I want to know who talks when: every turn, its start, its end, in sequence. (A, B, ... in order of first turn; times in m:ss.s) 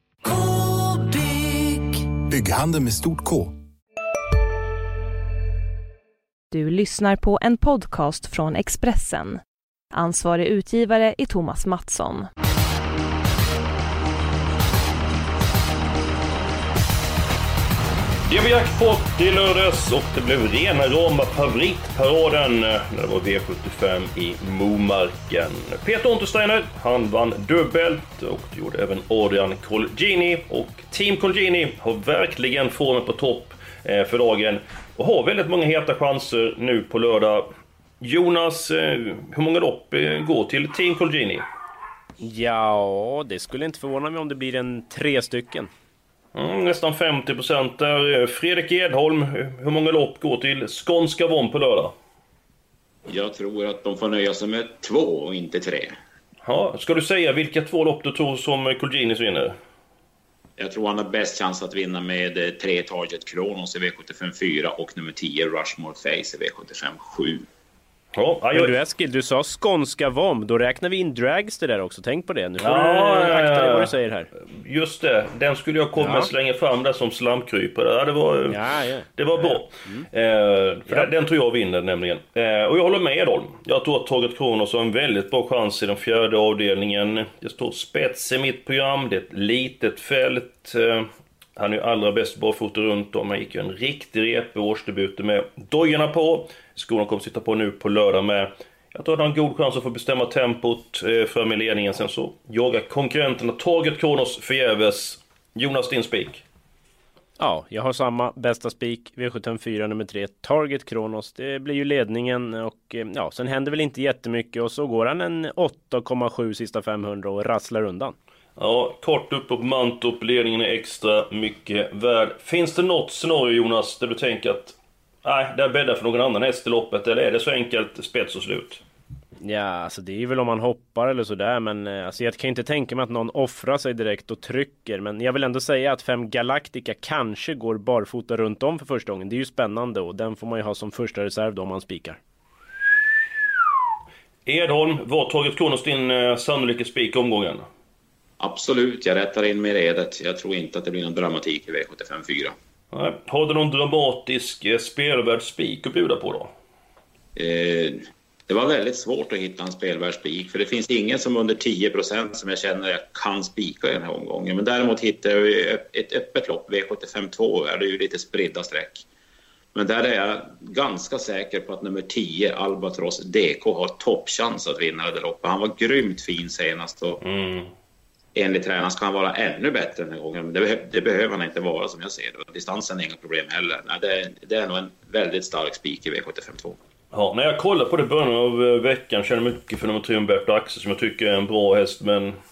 0:00.3-0:03.6 A
0:06.5-0:09.4 B
0:09.9-0:12.2 B
0:18.2-0:37.5 C
0:38.0-0:41.4 C
0:42.2-0:45.7 D
0:46.3-0:51.9 C
0:53.1-0:55.9 E
0:56.4-0:59.5 C
1:00.6-1:07.4 E
1:08.1-1:08.8 C
1:08.5-1:14.3 D
1:12.6-1:13.9 C
1:14.4-1:18.6 C
1:16.0-1:16.3 D
1:18.5-1:20.1 D
1:19.2-1:46.4 C
1:47.4-1:58.1 D
1:58.6-2:08.8 C
2:09.4-2:22.2 D
2:24.4-2:27.6 C
2:28.4-2:32.5 E
2:32.9-2:36.5 C
2:37.4-2:49.0 E
2:49.7-2:57.2 E
2:57.2-2:57.7 C
2:58.3-3:06.8 E
3:07.1-3:12.3 C